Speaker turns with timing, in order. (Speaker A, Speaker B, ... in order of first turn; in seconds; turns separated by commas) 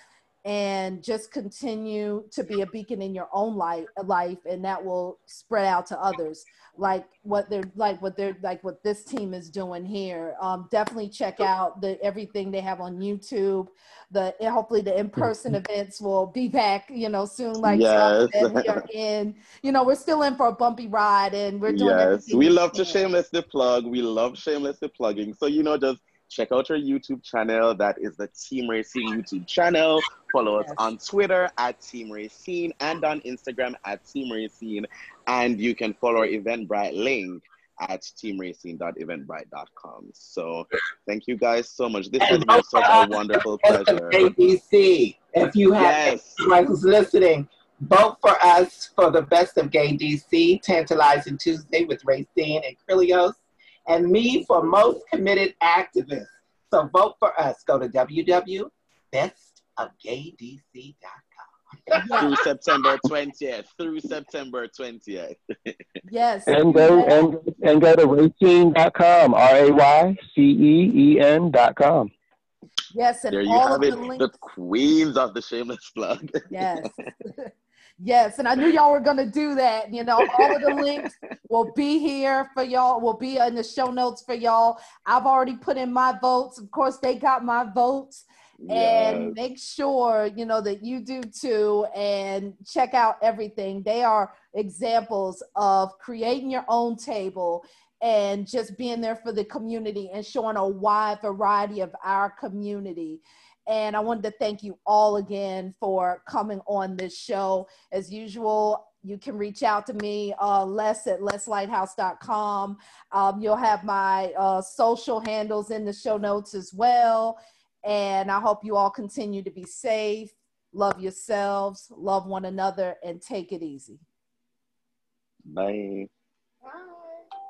Speaker A: 0.4-23.0, Speaker B: 17.6-18.8, Speaker B: 21.7-44.3, Speaker A: 30.6-30.9, Speaker C: 42.2-62.3, Speaker B: 45.8-46.4, Speaker A: 61.9-62.4, Speaker B: 62.1-65.8, Speaker A: 66.0-67.3, Speaker D: 66.5-72.1, Speaker A: 72.9-74.3, Speaker B: 73.3-77.1, Speaker A: 76.5-124.0, Speaker B: 80.4-80.8, Speaker B: 88.6-89.4, Speaker B: 125.5-126.1, Speaker C: 126.6-127.3